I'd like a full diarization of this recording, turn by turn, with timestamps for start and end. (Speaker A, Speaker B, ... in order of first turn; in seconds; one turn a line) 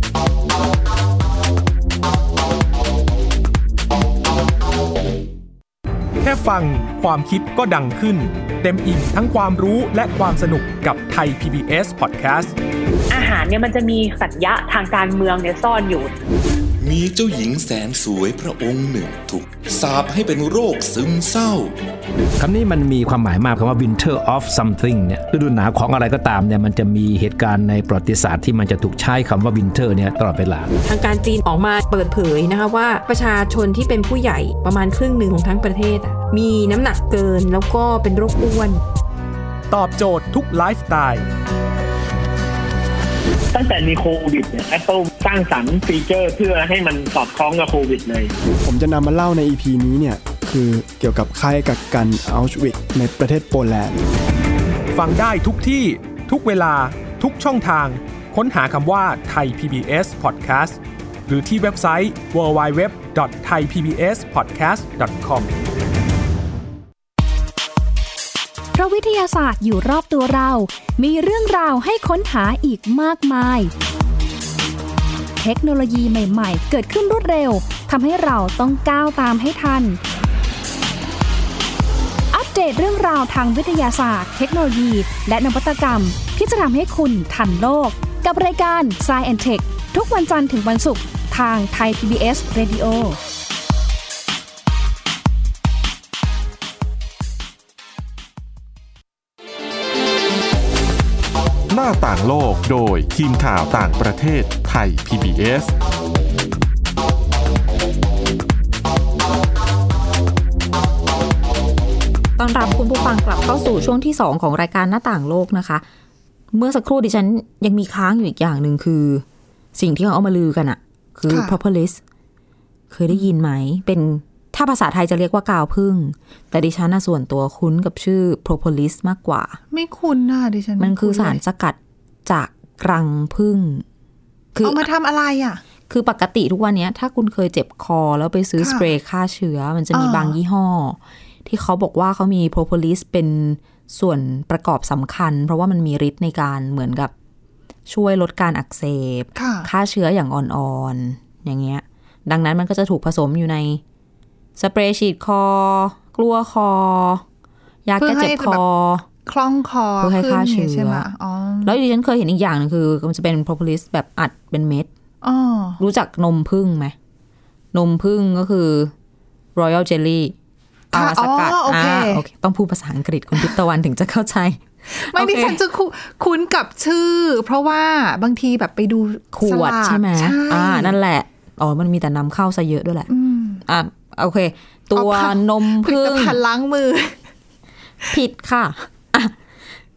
Speaker A: 6.2-12.5
Speaker B: 13.1-16.1
Speaker C: 16.8-21.7
Speaker D: 22.4-30.7
Speaker E: 30.8-38.8
Speaker A: 39.7-41.2
Speaker F: 43.5-48.3
Speaker G: 48.6-54.0
Speaker A: 54.9-65.5
Speaker H: 68.7-73.7
Speaker H: 75.4-80.0
Speaker H: 82.3-93.2
Speaker I: 101.7-105.7
Speaker J: 112.4-115.8
Speaker J: 116.5-122.0
Speaker K: 121.3-121.6
Speaker J: 122.9-129.6
Speaker K: 129.7-131.4
Speaker J: 130.8-133.8
Speaker J: 134.5-134.9
Speaker K: 134.6-135.6
Speaker J: 135.9-147.1
Speaker K: 138.6-138.9
Speaker K: 139.9-140.4
Speaker J: 147.9-153.8
Speaker K: 149.3-149.7
Speaker J: 154.6-157.2
Speaker J: 157.8-159.1
Speaker K: 158.0-158.6
Speaker K: 159.2-161.8
Speaker J: 160.0-161.1
Speaker J: 161.6-164.9
Speaker K: 165.2-165.8
Speaker J: 165.8-166.9
Speaker J: 167.7-168.9
Speaker J: 169.5-170.3
Speaker K: 170.9-172.2
Speaker J: 170.9-175.6
Speaker K: 174.9-180.9
Speaker J: 179.3-183.1
Speaker K: 183.1-183.6
Speaker J: 183.6-186.4
Speaker K: 184.9-187.2
Speaker J: 188.1-189.3